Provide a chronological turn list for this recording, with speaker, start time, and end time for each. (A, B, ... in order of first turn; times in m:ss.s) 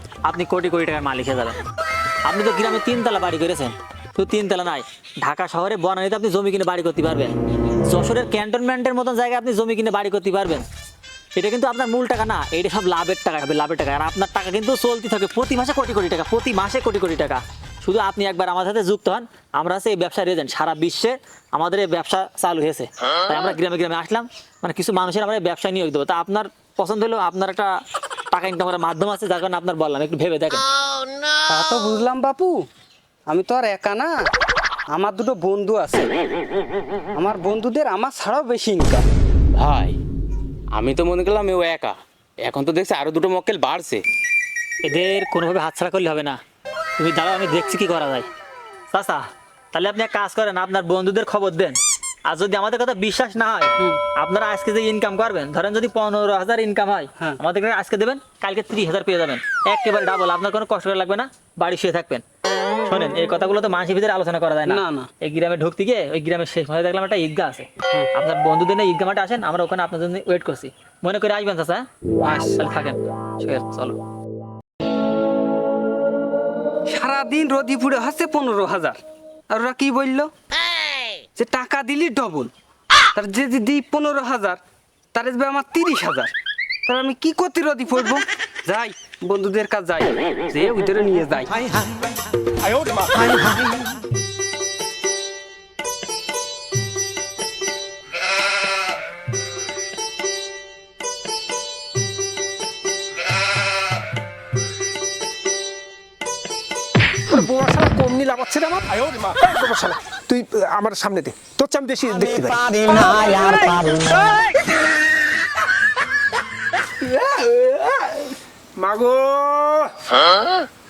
0:00.2-0:01.6 A
0:02.2-0:07.3 A
0:07.9-0:10.7 A
0:11.4-0:27.8 A
0:28.3-0:30.6 A
0:31.5-0:32.7 B
0:33.3-0:34.1 B
0:34.9-0:36.1 B
0:37.2-0:39.0 B
0:39.5-0:40.0 C
0:40.7-0:44.0 C
0:44.8-0:46.4 A
0:47.0-0:48.3 A
0:48.9-1:02.2 A
1:02.8-1:11.9 A
1:04.7-1:05.1 B
1:12.2-1:12.6 B
1:12.6-1:14.0 A
1:16.9-1:20.3 B
1:21.4-1:22.5 B
1:23.2-1:24.6 B
1:25.1-1:26.3 B
1:26.9-1:31.6 B
1:47.4-1:53.4 D
1:52.1-1:54.3 E
1:58.8-1:59.9 D